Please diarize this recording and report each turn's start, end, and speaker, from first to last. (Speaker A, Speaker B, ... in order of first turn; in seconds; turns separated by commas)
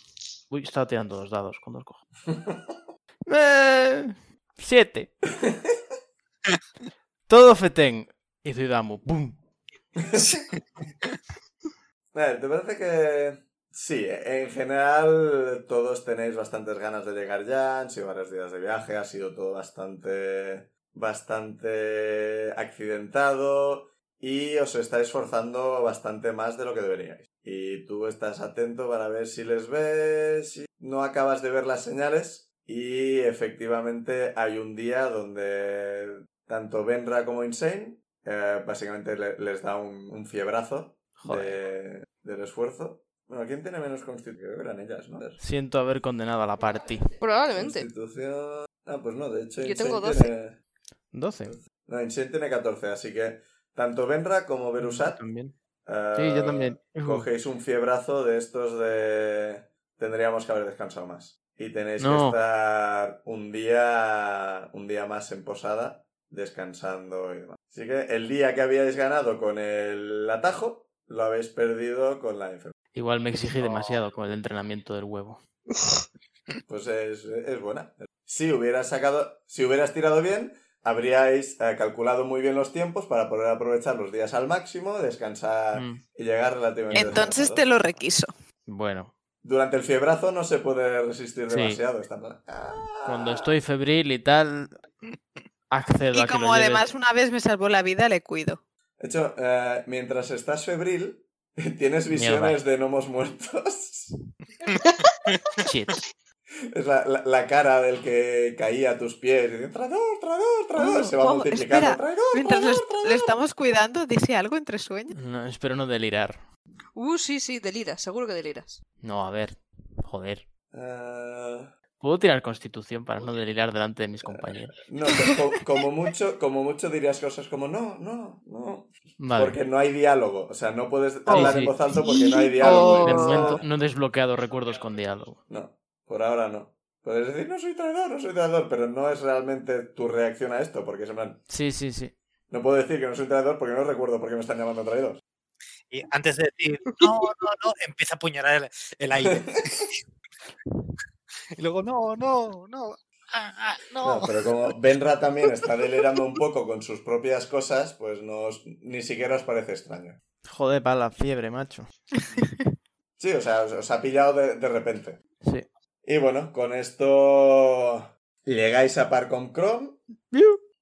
Speaker A: 0.5-2.0, Speaker B: 2.3-2.8, Speaker A: 3.3-5.2, Speaker B: 5.4-5.7, Speaker A: 7.3-9.4, Speaker B: 10.0-10.5, Speaker B: 12.1-45.4, Speaker A: 41.2-41.6, Speaker A: 45.4-47.2, Speaker C: 47.2-47.9, Speaker B: 47.5-50.6, Speaker C: 49.6-50.3, Speaker A: 51.1-51.6, Speaker B: 51.5-55.2, Speaker A: 54.8-55.5, Speaker B: 55.9-72.7, Speaker A: 56.1-57.3, Speaker A: 62.0-62.4, Speaker A: 72.9-75.4, Speaker D: 73.6-74.0, Speaker B: 76.7-87.7, Speaker A: 85.7-86.0, Speaker A: 86.9-87.2, Speaker E: 86.9-88.3, Speaker A: 88.7-89.1, Speaker B: 89.4-93.5, Speaker A: 91.5-91.8, Speaker A: 93.0-94.8, Speaker A: 95.7-96.9, Speaker E: 96.1-98.6, Speaker B: 99.0-104.2, Speaker A: 102.1-102.6, Speaker D: 104.6-105.7, Speaker A: 105.6-106.1, Speaker B: 106.7-113.4, Speaker E: 110.8-115.2, Speaker A: 115.1-116.4, Speaker C: 117.0-118.8, Speaker A: 119.0-120.5, Speaker B: 120.7-121.7, Speaker A: 122.0-124.7, Speaker B: 124.2-133.6, Speaker A: 129.2-129.6, Speaker A: 131.3-131.8, Speaker C: 132.1-133.6, Speaker A: 132.6-135.4, Speaker B: 135.5-141.4, Speaker A: 141.5-142.2, Speaker B: 142.5-145.2, Speaker D: 145.9-150.0, Speaker B: 149.2-149.9, Speaker D: 151.6-154.5, Speaker B: 154.0-160.2, Speaker A: 160.4-161.9, Speaker B: 163.2-165.2, Speaker B: 166.0-170.0, Speaker A: 170.3-170.6